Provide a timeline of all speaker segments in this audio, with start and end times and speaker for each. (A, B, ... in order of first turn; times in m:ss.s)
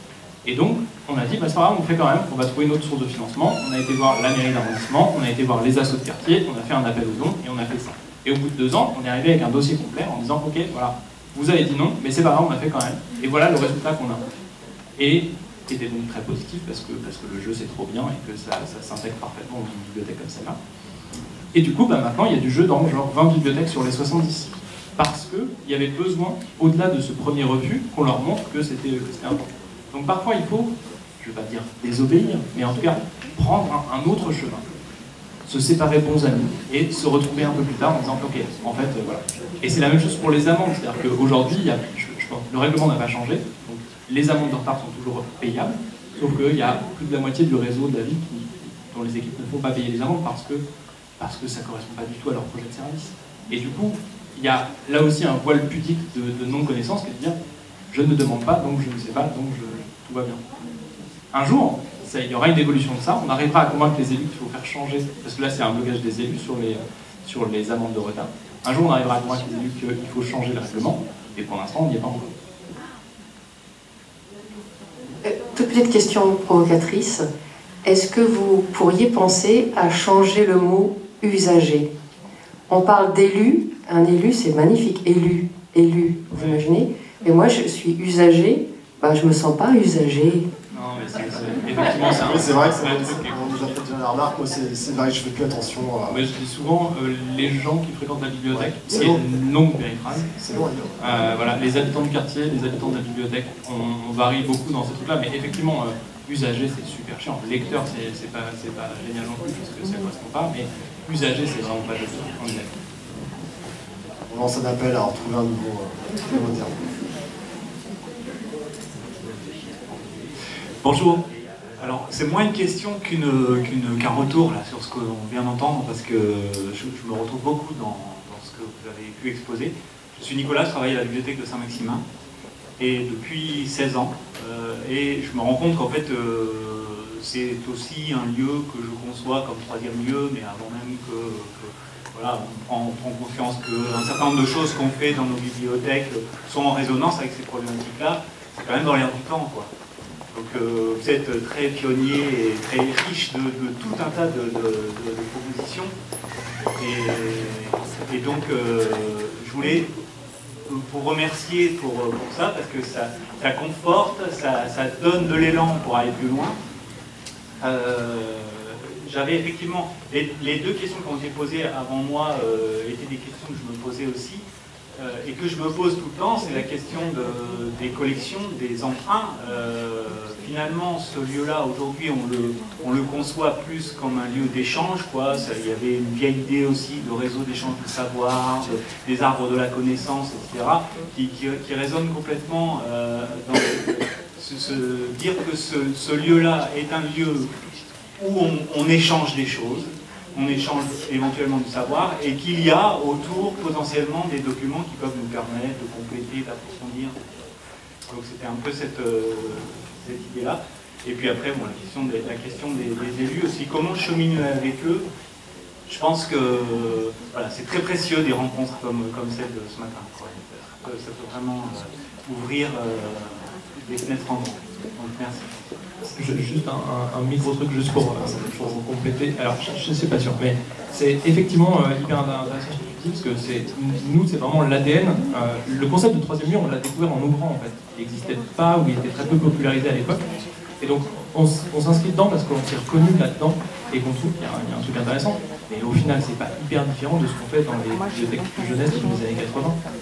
0:00.4-0:14.3 A
0:15.0-0:20.6 A
0:21.5-0:34.6 A
0:35.4-0:50.6 A
0:51.2-0:57.4 A
0:57.9-1:00.4 A
1:01.3-1:12.2 A
1:15.2-1:17.3 B
1:17.8-1:21.9 B
1:22.7-1:30.5 B
1:26.3-1:26.6 A
1:30.7-1:33.8 A
1:32.0-1:36.2 C
1:36.1-1:52.7 A
1:38.5-1:39.2 C
1:40.3-1:41.3 C
1:54.3-1:56.7 C
1:59.9-2:00.1 D
2:00.8-2:01.3 D
2:01.8-2:12.0 D
2:12.8-2:29.7 D
2:30.3-2:35.9 D
2:36.8-2:39.9 D
2:40.7-2:46.6 D
2:47.6-2:54.4 D
2:55.0-3:17.5 D
3:18.2-3:27.2 D
3:28.1-3:35.0 D
3:35.9-3:45.5 D
3:46.2-4:00.2 A
3:48.0-3:48.7 C
4:00.8-4:09.7 A